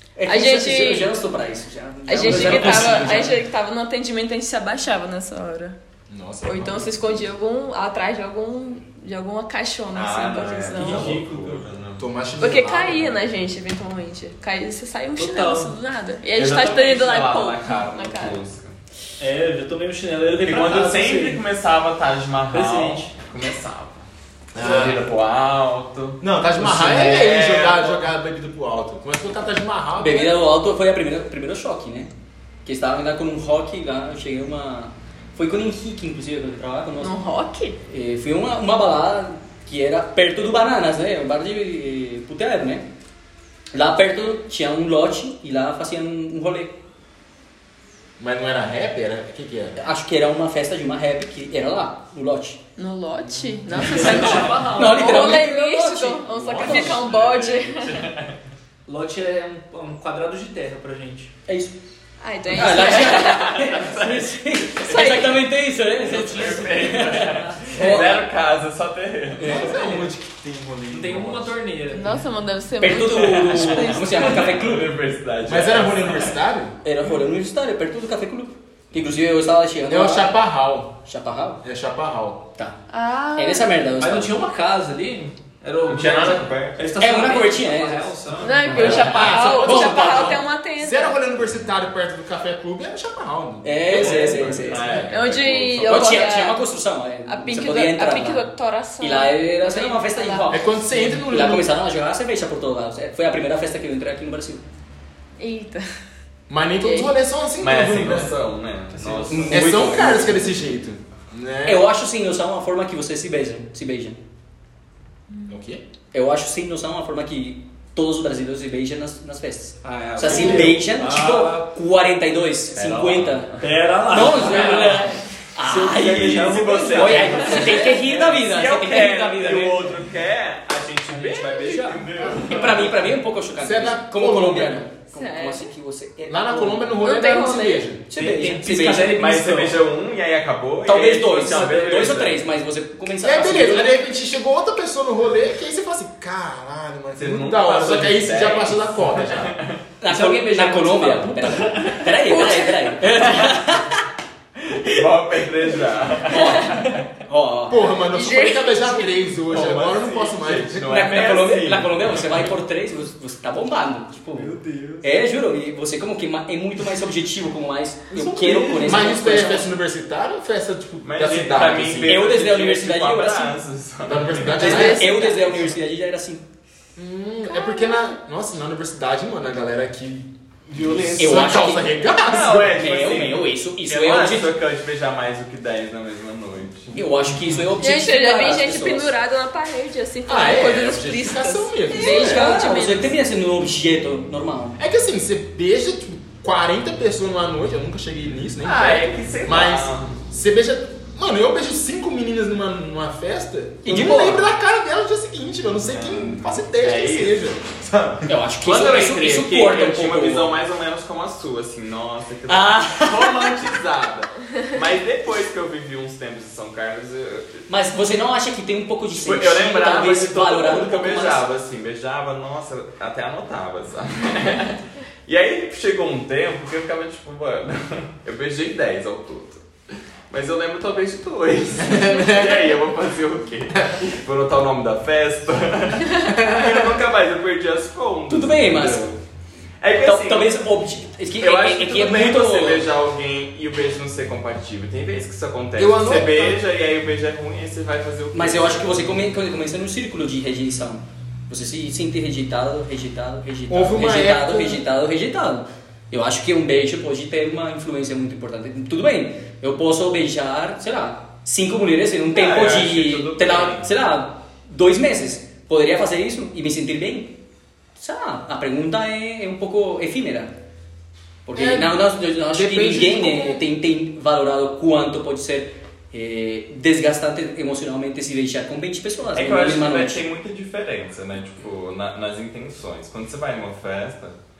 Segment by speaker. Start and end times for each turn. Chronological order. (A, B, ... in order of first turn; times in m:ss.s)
0:00.2-0:03.4 A
0:00.3-0:01.1 B
0:02.1-0:05.8 B
0:02.3-0:03.3 C
0:02.3-0:03.2 D
0:06.1-0:07.2 E
0:06.4-0:11.1 B
0:09.9-0:12.1 D
0:10.7-0:11.7 C
0:12.0-0:13.3 E
0:12.4-0:18.4 B
0:15.1-0:15.8 C
0:16.3-0:18.8 D
0:19.2-0:21.4 C
0:20.3-0:28.1 D
0:22.5-0:23.1 C
0:24.5-0:25.0 E
0:26.2-0:30.4 E
0:30.0-0:32.1 A
0:32.6-0:37.1 A
0:37.0-0:37.8 B
0:37.9-0:42.9 A
0:43.7-0:46.8 A
0:48.2-0:49.8 E
0:49.8-0:52.6 A
0:52.8-0:58.1 B
0:53.7-0:55.4 C
0:54.0-0:54.4 D
0:54.7-0:57.0 A
0:56.3-0:58.3 D
0:58.8-1:01.3 C
1:01.5-1:01.7 A
1:02.2-1:03.7 B
1:02.5-1:08.2 A
1:02.8-1:05.1 D
1:04.8-1:05.4 B
1:05.9-1:08.1 C
1:06.0-1:09.7 D
1:09.4-1:10.1 C
1:09.4-1:11.2 E
1:10.9-1:12.2 C
1:11.0-1:11.5 D
1:11.9-1:14.5 B
1:12.8-1:14.9 A
1:13.0-1:14.0 C
1:13.6-1:16.4 D
1:15.4-1:16.8 E
1:16.8-1:20.4 A
1:19.9-1:21.0 E
1:21.0-1:21.6 A
1:21.6-1:22.4 E
1:22.9-1:23.8 B
1:23.3-1:24.4 A
1:24.0-1:29.0 C
1:25.6-1:26.9 D
1:27.0-1:28.1 A
1:28.2-1:29.5 D
1:28.4-1:31.2 B
1:28.6-1:30.4 A
1:28.8-1:35.1 E
1:33.6-1:35.0 A
1:33.9-1:36.2 D
1:35.1-1:36.6 B
1:35.8-1:44.6 A
1:37.2-1:40.5 B
1:40.5-1:41.7 E
1:45.4-1:45.9 B
1:46.5-1:48.4 E
1:46.8-1:47.1 B
1:47.6-1:50.3 D
1:49.0-1:49.7 C
1:49.1-1:51.9 E
1:49.3-1:50.4 A
1:51.6-1:54.2 A
1:55.5-1:55.8 E
1:56.1-2:03.5 A
1:59.8-2:01.7 C
2:00.2-2:01.0 D
2:02.7-2:05.0 D
2:03.6-2:07.9 C
2:04.0-2:09.9 A
2:05.8-2:12.9 D
2:10.9-2:12.9 C
2:12.3-2:17.0 A
2:13.6-2:14.8 E
2:15.1-2:15.7 B
2:16.3-2:18.0 E
2:17.0-2:17.9 B
2:18.1-2:19.2 A
2:18.2-2:22.4 D
2:18.2-2:19.8 C
2:20.8-2:24.0 A
2:21.5-2:22.3 C
2:23.2-2:29.5 E
2:27.2-2:29.8 D
2:30.0-2:34.0 A
2:30.0-2:32.1 C
2:32.3-2:33.1 B
2:34.6-2:37.0 D
2:36.2-2:37.9 A
2:36.4-2:36.8 B
2:37.7-2:41.0 E
2:38.1-2:39.1 B
2:39.5-2:42.5 D
2:40.8-2:49.7 A
2:44.4-2:45.0 E
2:48.1-2:52.2 E
2:51.0-2:54.8 D
2:52.0-2:53.6 A
2:54.0-2:55.2 E
2:54.5-2:55.7 B
2:54.6-2:56.4 A
2:57.0-3:02.7 E
2:57.5-2:58.0 B
3:00.7-3:01.5 D
3:01.2-3:02.0 A
3:02.2-3:06.9 D
3:02.5-3:04.5 A
3:06.9-3:09.1 A
3:07.8-3:13.1 B
3:10.2-3:12.5 E
3:11.9-3:14.8 A
3:14.8-3:28.3 E
3:18.6-3:20.2 D
3:23.8-3:24.5 A
3:25.9-3:27.5 D
3:28.3-3:30.6 A
3:28.6-3:37.6 D
3:32.5-3:33.6 A
3:37.7-3:41.4 A
3:39.2-3:49.6 D
3:50.3-3:59.2 D
3:51.8-3:52.8 E
3:56.2-3:56.9 E
3:58.3-3:59.1 A
3:59.8-4:00.6 D
4:00.0-4:02.9 A
4:01.4-4:08.9 D
4:05.8-4:06.6 E
4:08.3-4:27.4 A
4:13.7-4:14.8 E
4:22.3-4:23.9 D
4:28.0-4:30.5 A
4:31.4-4:40.2 A
4:31.5-4:33.6 E
4:39.3-4:44.4 D